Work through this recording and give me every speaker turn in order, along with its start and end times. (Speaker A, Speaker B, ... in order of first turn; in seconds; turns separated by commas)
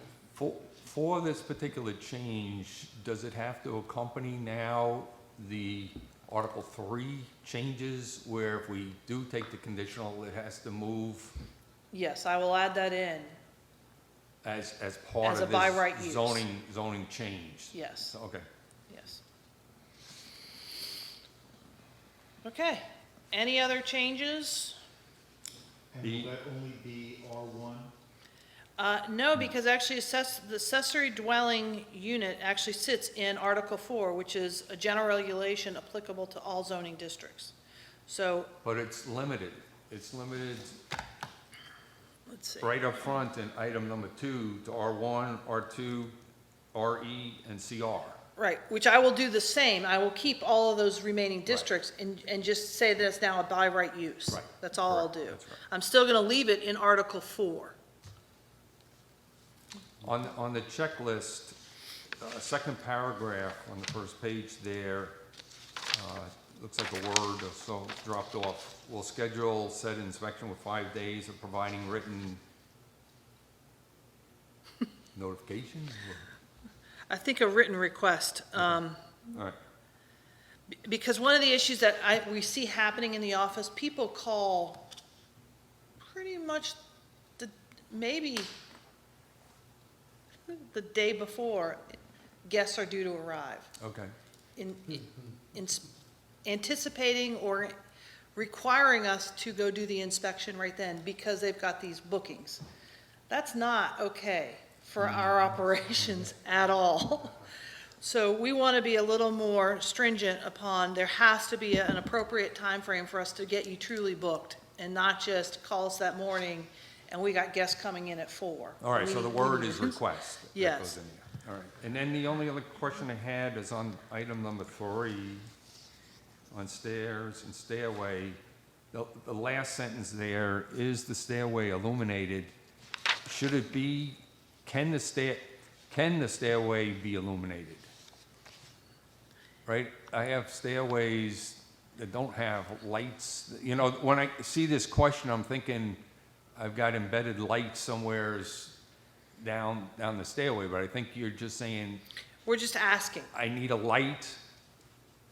Speaker A: 0.3-11.3, Speaker B: 11.9-13.3, Speaker A: 14.4-18.4, Speaker B: 15.2-16.4, Speaker B: 17.7-18.1, Speaker B: 18.9-19.2, Speaker B: 22.4-24.8, Speaker C: 25.9-27.9, Speaker A: 26.0-26.3, Speaker B: 28.8-37.5, Speaker B: 38.1-38.5, Speaker A: 38.6-40.8, Speaker B: 42.3-42.9, Speaker A: 42.6-46.1, Speaker A: 46.7-48.2, Speaker B: 48.4-57.8, Speaker A: 54.3-55.6, Speaker A: 60.0-61.6, Speaker A: 62.2-65.1, Speaker A: 65.9-72.4, Speaker A: 75.1-76.3, Speaker B: 77.1-79.0, Speaker A: 79.3-79.6, Speaker B: 80.8-84.9, Speaker B: 86.1-86.8, Speaker B: 87.4-88.5, Speaker B: 90.5-93.7, Speaker A: 93.8-94.1, Speaker B: 94.6-95.9, Speaker B: 96.4-97.7, Speaker B: 98.3-102.6, Speaker B: 103.3-107.4, Speaker B: 108.0-120.0, Speaker A: 118.8-125.5, Speaker B: 120.5-121.0, Speaker A: 126.5-128.4, Speaker A: 128.9-132.5, Speaker A: 133.2-137.8, Speaker A: 139.7-146.0, Speaker A: 146.6-148.7, Speaker A: 149.4-152.0, Speaker B: 152.4-153.3, Speaker A: 153.3-154.4